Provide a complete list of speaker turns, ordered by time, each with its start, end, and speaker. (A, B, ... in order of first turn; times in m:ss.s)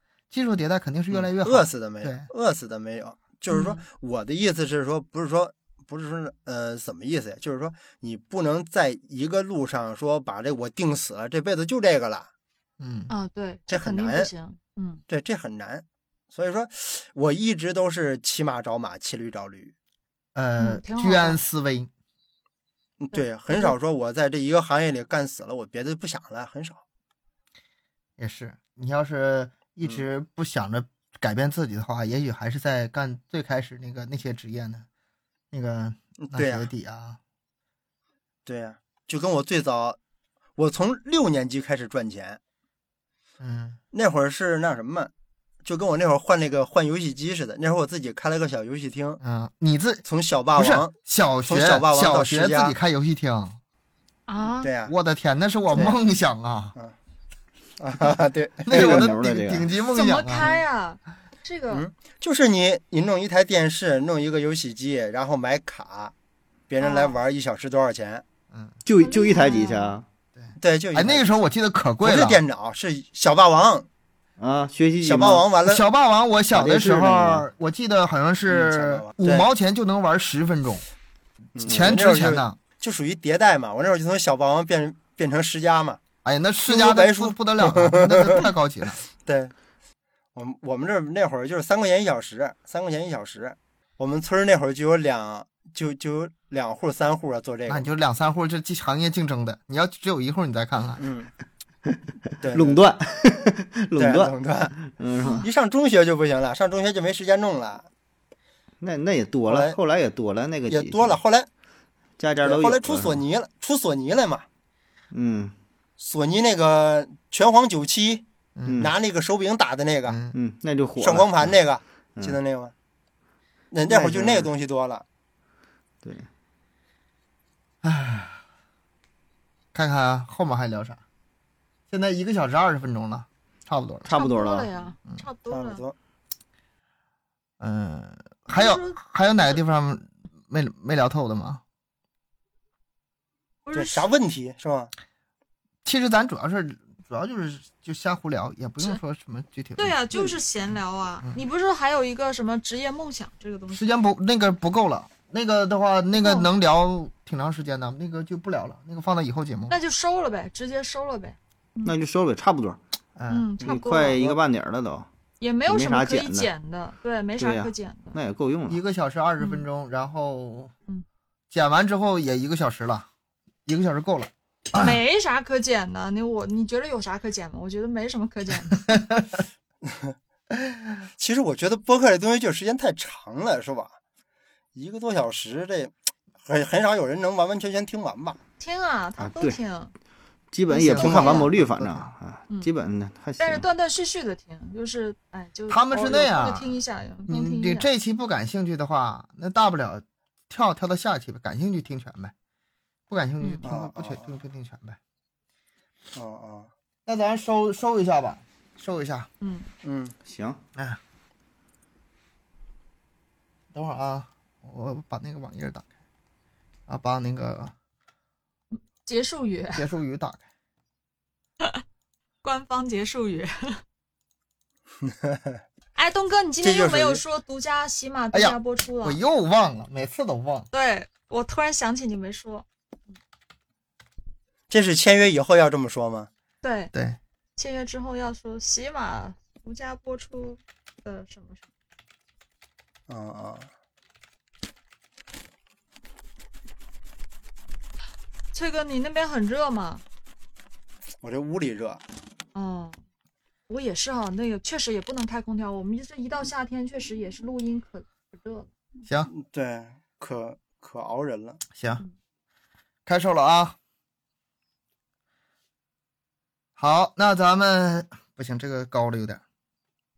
0:00.3-0:02.3 A
0:01.1-0:12.3 B
0:03.5-0:03.8 C
0:12.8-0:13.1 A
0:13.1-0:15.0 C
0:13.7-0:14.3 B
0:15.1-0:19.7 B
0:20.3-0:21.9 A
0:20.6-0:21.4 C
0:23.0-0:26.8 B
0:23.1-0:23.7 C
0:28.2-0:34.8 A
0:35.5-0:37.2 A
0:36.2-0:36.7 B
0:38.4-0:40.0 B
0:40.6-0:42.4 B
0:43.4-0:43.8 A
0:43.9-0:45.1 B
0:45.6-0:49.2 B
0:49.2-0:50.0 A
0:50.0-0:52.7 B
0:50.5-0:53.6 A
0:54.3-0:54.7 C
0:54.6-0:54.9 B
0:54.8-0:56.8 A
0:57.8-0:59.1 B
0:58.7-1:00.5 A
0:58.7-0:59.7 D
0:59.9-1:01.8 C
1:01.7-1:06.1 B
1:06.7-1:08.2 B
1:06.8-1:07.2 C
1:08.8-1:10.0 D
1:09.0-1:10.0 C
1:10.4-1:12.4 A
1:10.6-1:11.4 B
1:12.0-1:13.9 B
1:14.4-1:15.4 D
1:15.0-1:15.8 B
1:15.6-1:20.8 A
1:16.5-1:17.4 D
1:18.5-1:19.5 B
1:21.5-1:26.0 B
1:21.6-1:22.6 A
1:21.7-1:21.9 D
1:26.2-1:29.0 A
1:26.6-1:28.5 B
1:29.2-1:29.5 B
1:30.3-1:37.9 B
1:37.7-1:41.0 A
1:41.0-1:41.3 B
1:42.4-1:42.8 B
1:42.5-1:45.4 D
1:44.0-1:44.8 B
1:45.4-1:47.9 B
1:48.8-1:51.2 D
1:49.5-1:49.8 B
1:50.7-1:51.5 B
1:52.2-1:53.2 D
1:52.4-1:54.4 B
1:55.1-1:55.5 D
1:56.0-1:58.2 B
1:58.6-1:58.8 A
1:58.7-1:58.9 D
1:58.8-2:00.2 B
2:00.1-2:00.3 A
2:00.3-2:01.5 D
2:01.0-2:02.7 B
2:03.7-2:05.0 B
2:03.9-2:04.5 D
2:06.0-2:06.3 D
2:07.8-2:08.4 A
2:09.7-2:11.0 A
2:11.9-2:14.1 A
2:14.0-2:14.7 D
2:14.1-2:15.8 C
2:15.5-2:15.9 B
2:17.6-2:21.6 A
2:18.5-2:19.6 C
2:23.6-2:24.1 C
2:23.7-2:24.9 B
2:25.8-2:30.3 A
2:29.8-2:33.8 C
2:33.7-2:39.8 A
2:36.2-2:36.5 C
2:39.7-2:41.9 C
2:41.8-2:42.8 D
2:43.2-2:44.4 A
2:43.3-2:44.2 C
2:43.6-2:45.1 D
2:45.4-2:48.2 C
2:45.7-2:46.5 D
2:47.4-2:48.8 D
2:48.7-2:50.7 A
2:49.4-2:49.6 C
2:51.5-2:53.1 A
2:53.6-2:55.0 A
2:54.7-2:58.8 C
2:58.8-2:59.2 A
2:59.8-3:00.1 B
3:01.2-3:04.0 B
3:04.7-3:08.4 B
3:08.6-3:09.9 C
3:09.2-3:09.6 D
3:10.5-3:13.6 D
3:10.7-3:11.5 C
3:10.7-3:12.1 A
3:11.0-3:11.4 B
3:13.4-3:17.9 C
3:15.7-3:16.7 A
3:17.3-3:22.3 A
3:23.1-3:25.0 A
3:23.4-3:23.6 C
3:23.6-3:24.3 B
3:26.1-3:26.7 B
3:27.0-3:29.3 A
3:29.4-3:29.7 C
3:29.8-3:30.1 B
3:30.2-3:30.6 D
3:33.7-3:35.9 A
3:36.9-3:37.7 A
3:38.7-3:39.8 C
3:39.7-3:40.4 A
3:42.4-3:43.8 C
3:45.1-3:45.5 B
3:46.0-3:49.2 C
3:46.6-3:47.2 B
3:48.3-3:50.7 A
3:50.7-3:52.6 C
3:54.7-3:56.3 B
3:56.6-3:56.9 C
3:56.9-3:57.2 A
3:57.6-4:01.7 C
4:03.1-4:03.7 B
4:08.5-4:10.0 C
4:11.2-4:12.0 B
4:12.5-4:13.0 C
4:13.7-4:18.7 C
4:19.3-4:21.6 B
4:21.7-4:22.0 A
4:23.0-4:23.8 A
4:26.8-4:29.4 A